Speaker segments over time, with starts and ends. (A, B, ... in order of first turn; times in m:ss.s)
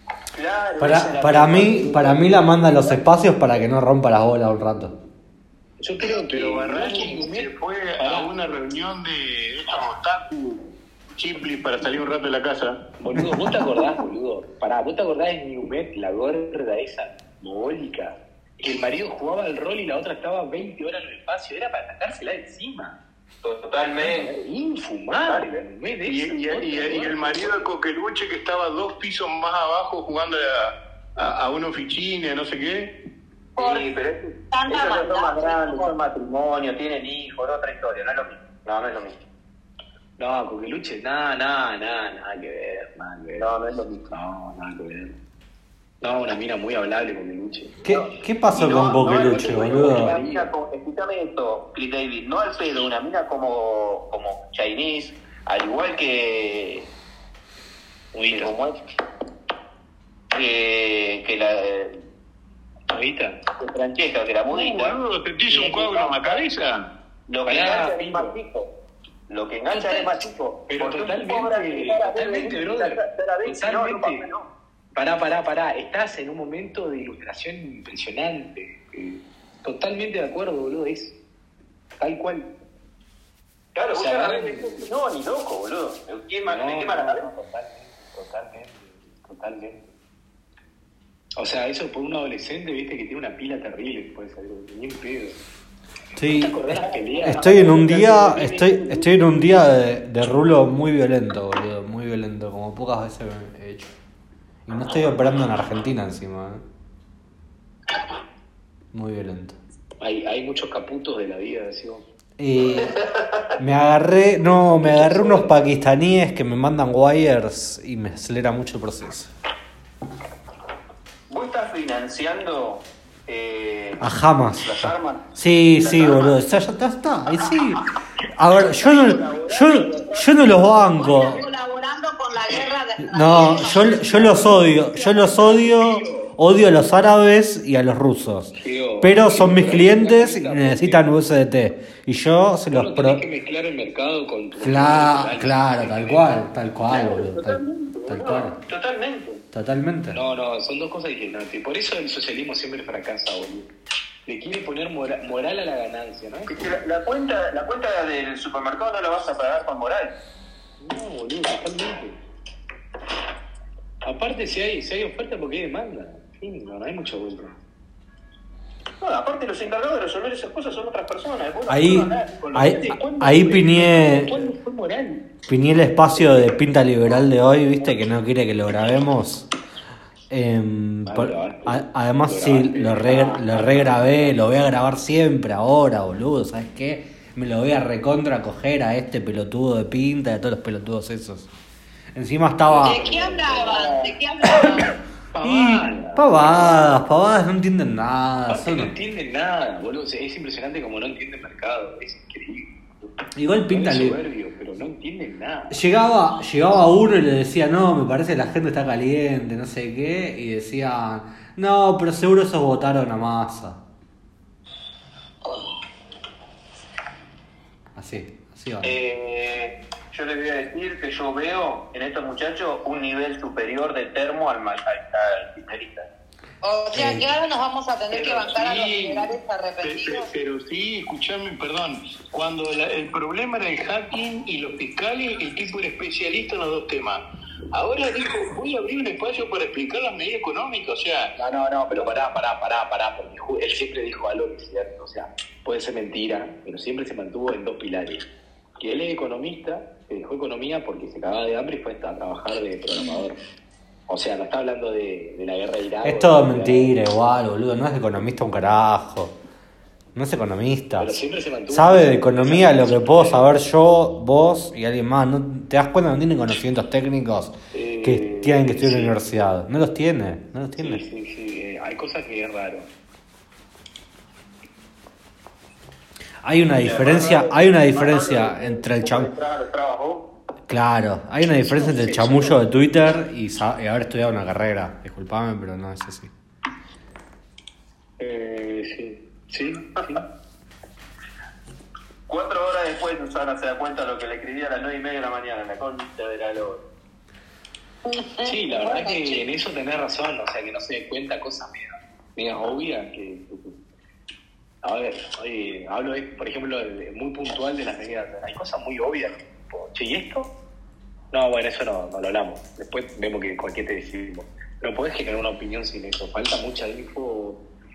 0:00.3-0:02.9 A
0:00.8-0:04.9 B
0:05.8-0:08.3 C
0:06.1-0:12.7 D
0:13.0-0:23.0 C
0:13.2-0:13.5 B
0:23.4-0:24.3 A
0:24.0-0:27.7 C
0:25.2-0:25.5 A
0:26.0-0:32.9 D
0:33.6-0:33.9 E
0:33.6-0:39.2 A
0:34.5-0:35.9 E
0:40.2-0:45.2 C
0:43.4-0:44.0 A
0:46.0-0:47.7 C
0:47.8-0:50.1 B
0:47.9-0:56.9 A
0:49.9-0:50.5 C
0:58.1-0:58.6 C
0:58.2-0:58.8 A
1:00.3-1:02.0 A
1:02.9-1:03.4 C
1:03.6-1:05.0 A
1:04.5-1:06.8 D
1:05.5-1:06.2 C
1:07.3-1:08.7 A
1:07.4-1:08.3 C
1:09.3-1:14.5 A
1:09.7-1:14.2 C
1:14.9-1:21.1 C
1:22.0-1:22.5 C
1:23.7-1:27.2 A
1:23.9-1:24.8 C
1:26.5-1:29.9 C
1:31.4-1:35.4 C
1:36.2-1:43.9 B
1:36.3-1:38.6 C
1:37.2-1:38.9 A
1:44.7-1:46.6 B
1:48.9-1:49.6 B
1:50.0-1:52.0 C
1:52.4-1:53.0 B
1:53.0-1:53.2 A
1:53.6-1:59.3 B
1:54.7-1:55.4 C
2:01.3-2:05.2 A
2:04.0-2:07.8 B
2:05.8-2:06.3 A
2:08.4-2:11.4 B
2:08.5-2:10.8 A
2:11.0-2:14.4 E
2:13.0-2:23.2 B
2:18.6-2:21.0 C
2:22.7-2:26.1 C
2:24.6-2:28.6 B
2:26.9-2:29.4 A
2:29.5-2:30.2 B
2:30.1-2:33.7 C
2:34.2-2:36.6 C
2:36.5-2:40.1 A
2:40.8-2:42.2 C
2:44.0-2:47.6 C
2:49.0-2:53.0 A
2:51.7-2:54.5 B
2:52.9-2:55.3 C
2:55.5-2:59.5 B
3:00.3-3:11.5 B
3:01.0-3:04.3 C
3:12.1-3:13.1 B
3:12.7-3:14.8 C
3:12.8-3:14.9 E
3:15.3-3:16.8 C
3:15.4-3:18.9 B
3:18.5-3:22.7 C
3:23.3-3:24.2 B
3:23.7-3:25.8 C
3:25.7-3:33.8 B
3:37.9-3:39.0 B
3:38.8-3:46.1 A
3:46.6-3:50.3 E
3:46.9-3:47.2 B
3:48.1-4:01.3 D
4:01.4-4:08.2 C
4:08.8-4:13.4 C
4:14.1-4:16.9 C
4:16.0-4:19.3 B
4:20.1-4:21.1 B
4:21.0-4:23.5 C
4:21.7-4:31.0 B
4:27.7-4:29.2 C
4:30.8-4:32.9 C
4:36.4-4:39.3 B
4:36.7-4:40.3 A
4:40.7-4:46.3 B
4:41.7-4:42.6 C
4:48.2-4:50.2 C
4:52.3-4:56.8 A
4:58.0-4:59.4 E
4:58.4-5:03.8 C
5:04.8-5:10.5 C
5:11.3-5:17.6 C